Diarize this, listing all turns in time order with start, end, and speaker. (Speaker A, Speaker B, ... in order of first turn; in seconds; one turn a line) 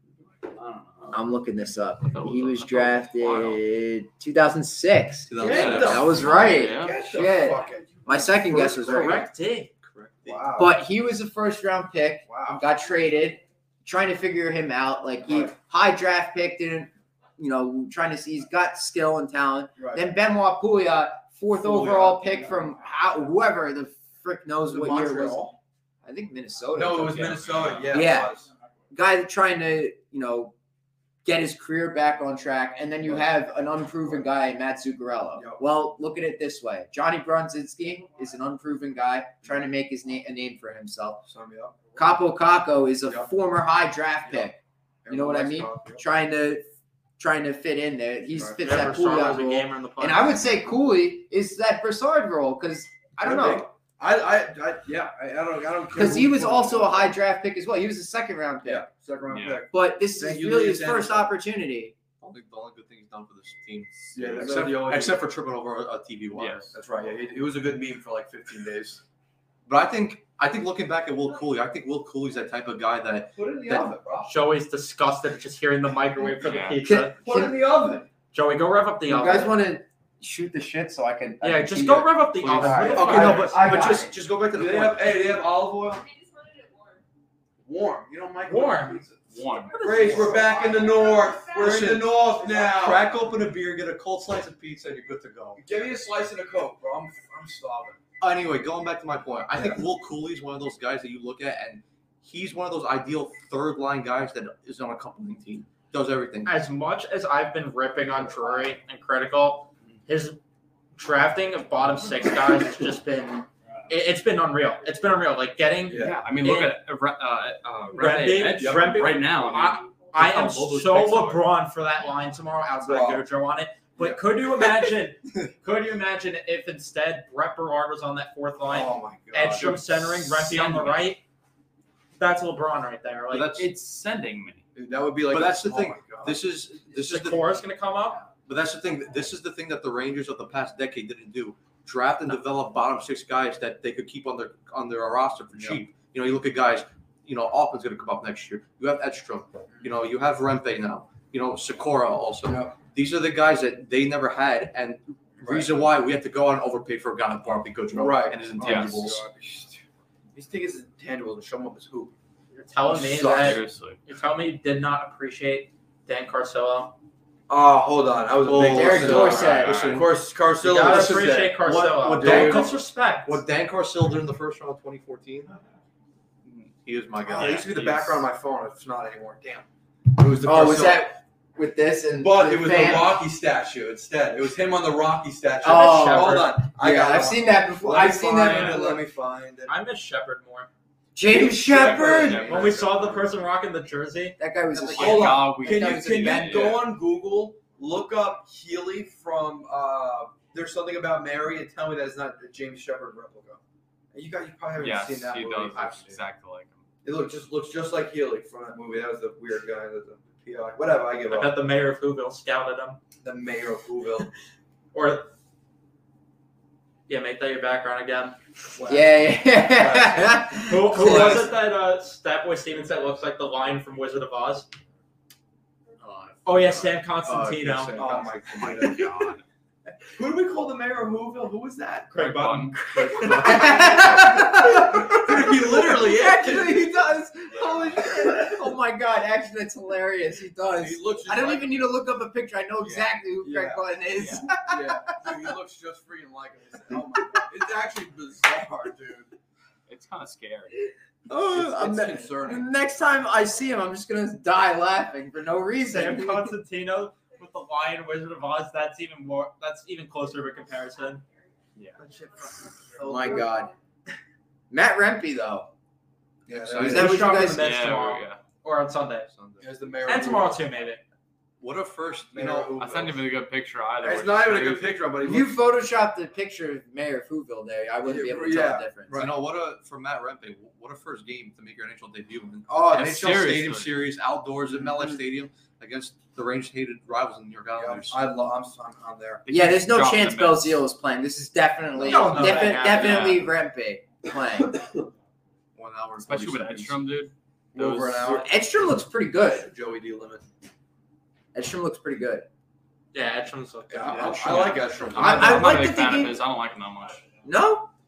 Speaker A: 0.5-1.2
Speaker B: 1.1-9.3
Speaker A: 2.1-3.6
Speaker C: 5.3-6.2
Speaker D: 5.4-9.2
Speaker A: 5.4-7.0
Speaker E: 8.6-9.7
Speaker C: 10.1-10.3
Speaker D: 10.2-10.8
Speaker B: 10.6-25.5
Speaker D: 12.3-12.6
Speaker D: 19.8-20.1
Speaker D: 21.6-22.7
Speaker D: 24.7-25.6
Speaker B: 26.1-27.4
Speaker D: 26.8-28.5
Speaker A: 27.1-28.2
Speaker B: 27.9-28.3
Speaker B: 28.9-30.5
Speaker B: 31.2-41.2
Speaker D: 33.0-33.3
Speaker D: 33.9-34.3
Speaker D: 35.4-35.6
Speaker D: 41.3-42.0
Speaker B: 42.0-44.6
Speaker D: 43.0-43.3
Speaker D: 45.0-46.0
Speaker B: 45.1-46.6
Speaker B: 47.2-53.7
Speaker D: 48.4-49.2
Speaker E: 48.6-50.4
Speaker D: 53.2-57.1
Speaker B: 55.9-58.8
Speaker D: 58.6-61.3
Speaker A: 59.3-59.6
Speaker B: 59.7-62.0
Speaker C: 62.2-66.8
Speaker A: 64.1-64.6
Speaker D: 64.1-65.2
Speaker A: 66.3-66.7
Speaker D: 66.7-69.0
Speaker C: 69.7-74.0
Speaker D: 73.3-74.3
Speaker E: 74.3-77.2
Speaker A: 76.4-76.8
Speaker B: 76.8-77.5
Speaker D: 77.2-78.1
Speaker E: 78.3-79.6
Speaker B: 79.1-84.1
Speaker E: 81.4-83.6
Speaker A: 82.5-82.8
Speaker D: 82.8-86.0
Speaker C: 83.0-85.3
Speaker F: 85.8-87.0
Speaker D: 87.6-89.2
Speaker E: 88.4-89.0
Speaker A: 89.3-90.4
Speaker F: 89.7-91.8
Speaker E: 89.8-90.4
Speaker D: 89.8-93.1
Speaker C: 91.5-95.6
Speaker D: 95.6-98.0
Speaker C: 98.2-106.6
Speaker E: 106.5-110.4
Speaker E: 111.0-116.8
Speaker D: 115.9-116.3
Speaker A: 116.0-121.5
Speaker E: 117.9-131.2
Speaker D: 118.6-119.0
Speaker F: 119.8-120.2
Speaker D: 122.8-123.3
Speaker D: 124.0-124.2
Speaker D: 128.7-129.8
Speaker A: 129.6-131.1
Speaker E: 132.2-133.6
Speaker C: 133.3-133.7
Speaker A: 133.5-134.7
Speaker D: 134.8-136.4
Speaker C: 135.3-137.5
Speaker E: 136.9-138.2
Speaker C: 138.4-159.2
Speaker D: 152.5-152.7
Speaker D: 155.4-155.7
Speaker D: 157.9-159.8
Speaker A: 158.6-159.1
Speaker D: 160.3-162.1
Speaker E: 162.5-166.9
Speaker D: 162.9-163.6
Speaker A: 163.2-164.0
Speaker D: 167.5-172.8
Speaker C: 168.4-175.6
Speaker B: 168.6-169.8
Speaker E: 170.6-173.4
Speaker A: 176.4-176.7
Speaker C: 176.8-177.7
Speaker A: 177.3-178.3
Speaker D: 177.3-181.1
Speaker B: 180.4-183.2
Speaker D: 182.2-189.8
Speaker B: 185.6-189.0
Speaker E: 185.7-186.6
Speaker E: 188.4-188.9
Speaker E: 189.7-190.7
Speaker B: 191.2-192.4
Speaker D: 191.3-192.8
Speaker A: 191.7-193.4
Speaker E: 192.4-194.9
Speaker B: 194.4-196.7
Speaker D: 194.8-203.6
Speaker A: 194.9-196.9
Speaker D: 204.1-206.2
Speaker A: 204.8-206.8
Speaker D: 207.0-211.6
Speaker E: 211.2-213.0
Speaker D: 213.2-214.3
Speaker E: 214.9-215.3
Speaker E: 217.1-218.4
Speaker D: 218.8-221.6
Speaker B: 218.9-221.5
Speaker E: 220.6-224.7
Speaker A: 226.1-227.0
Speaker E: 226.4-228.0
Speaker C: 227.2-228.9
Speaker D: 227.9-229.1
Speaker A: 228.5-229.4
Speaker D: 230.2-232.3
Speaker E: 232.1-233.7
Speaker A: 232.1-233.7
Speaker D: 233.0-237.0
Speaker B: 233.4-245.2
Speaker D: 240.7-241.9
Speaker D: 243.4-243.9
Speaker A: 244.1-244.5
Speaker D: 244.5-249.3
Speaker A: 249.9-250.8
Speaker B: 251.3-256.5
Speaker D: 251.3-252.7
Speaker E: 255.9-261.2
Speaker F: 260.2-262.5
Speaker A: 261.8-262.0
Speaker B: 263.0-263.7
Speaker D: 263.0-263.5
Speaker F: 263.1-263.7
Speaker B: 264.7-265.7
Speaker D: 266.5-267.4
Speaker C: 266.5-267.2
Speaker B: 266.8-267.8
Speaker E: 266.8-269.3
Speaker A: 267.5-268.4
Speaker C: 269.3-269.7
Speaker D: 269.6-270.6
Speaker E: 270.0-271.0
Speaker C: 271.6-272.9
Speaker D: 272.3-273.2
Speaker A: 272.8-275.1
Speaker D: 274.0-275.6
Speaker B: 275.2-279.2
Speaker D: 278.0-279.3
Speaker C: 279.1-288.2
Speaker D: 282.7-283.1
Speaker A: 282.9-284.0
Speaker D: 287.7-289.5
Speaker A: 289.5-290.8
Speaker B: 289.5-294.8
Speaker D: 292.0-292.9
Speaker E: 292.1-293.4
Speaker A: 292.8-293.5
Speaker D: 294.5-295.1
Speaker C: 295.8-297.1
Speaker A: 296.2-298.5
Speaker D: 297.7-298.5
Speaker B: 298.3-299.7
Speaker D: 299.5-300.5
Speaker B: 301.5-302.5
Speaker E: 303.1-304.8
Speaker D: 303.9-305.8
Speaker C: 304.1-305.5
Speaker A: 304.2-307.2
Speaker B: 305.1-306.4
Speaker B: 307.4-307.9